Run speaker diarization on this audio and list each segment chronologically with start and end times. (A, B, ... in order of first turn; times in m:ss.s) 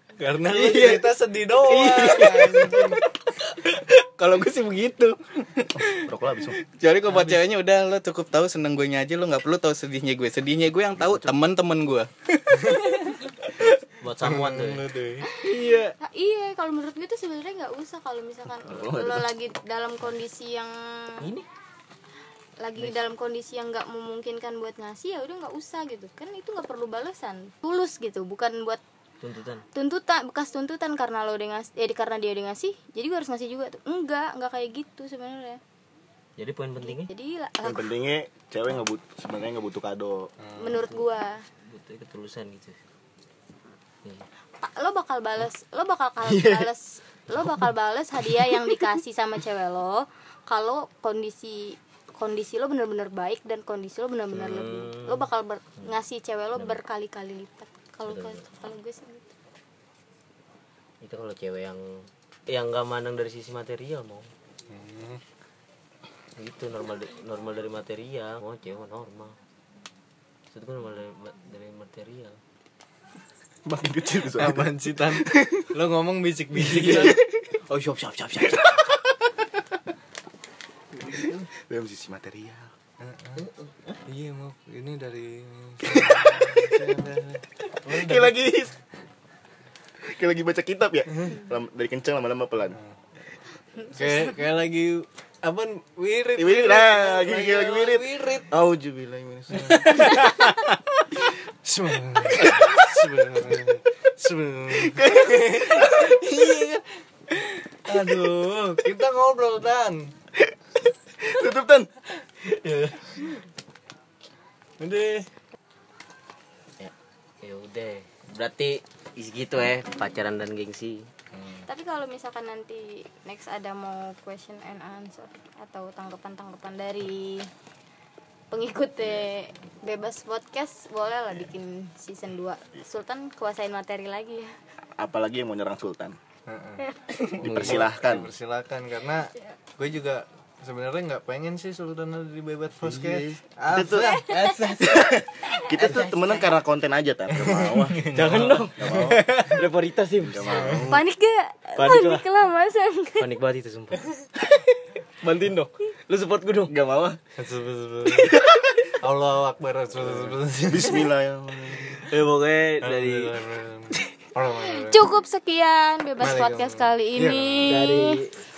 0:00.2-0:03.0 A
0:00.5-0:06.0 B
0:06.0-0:06.6 C
0:06.7-0:13.8 B
0:11.0-0:11.4 C
0:12.5-0:13.0 A
0:14.0-0:14.8 D
0:14.2-0:15.3 A
0:15.3-0:21.3 E
0:15.4-0:15.9 B
0:18.6-0:19.3 C
0:21.2-0:21.5 D
0:22.6-0:28.8 E
0:29.2-0:29.6 D
0:29.7-0:35.6 E
0:36.4-0:37.1 D
0:36.8-0:37.8 E
0:37.6-0:40.3 C
0:40.4-0:40.8 A
0:40.6-0:41.4 E
0:40.6-0:41.0 D
0:41.6-0:42.8 D
0:44.6-0:59.3 E
0:46.2-0:46.7 C
0:54.3-0:55.3 D
0:56.6-0:56.8 D
0:58.0-0:58.4 D
1:01.0-1:04.3 D
1:04.7-1:05.2 A
1:06.4-1:09.4 D
1:10.5-1:12.4 D
1:13.6-1:15.7 C
1:14.3-1:17.2 A
1:16.6-1:17.2 B
1:16.9-1:17.4 C
1:17.7-1:18.9 B
1:18.4-1:19.4 C
1:21.1-1:22.7 C
1:23.0-1:23.5 A
1:23.4-1:24.0 D
1:24.1-1:27.4 A
1:25.9-1:26.8 C
1:27.8-1:28.3 D
1:27.8-1:28.7 C
1:30.0-1:32.8 C
1:33.9-1:38.5 A
1:36.3-1:40.1 C
1:39.5-1:39.9 A
1:40.0-1:40.6 B
1:41.6-1:46.8 A
1:42.4-1:42.8 C
1:44.8-1:46.2 C
1:47.8-1:50.1 A
1:51.2-1:51.9 C
1:54.8-1:55.3 A
1:56.8-2:01.1 D
2:01.7-2:07.5 E
2:08.5-2:14.5 E
2:15.0-2:16.2 C
2:16.5-2:24.6 A
2:17.4-2:18.3 C
2:17.5-2:17.8 D
2:22.8-2:24.3 C
2:24.1-2:25.1 D
2:24.2-2:24.8 E
2:24.8-2:28.1 C
2:25.7-2:26.4 D
2:27.7-2:28.6 A
2:27.9-2:30.9 D
2:28.8-2:29.3 C
2:30.2-2:31.0 C
2:30.4-2:31.0 A
2:30.9-2:33.3 E
2:31.8-2:32.3 D
2:33.2-2:34.6 D
2:35.2-2:36.7 D
2:36.7-2:37.2 C
2:37.4-2:38.4 A
2:38.3-2:38.6 C
2:39.0-2:41.1 A
2:40.6-2:42.0 C
2:42.1-2:43.3 D
2:42.8-2:45.1 A
2:44.7-2:48.2 E
2:46.2-2:47.8 A
2:47.6-2:48.4 D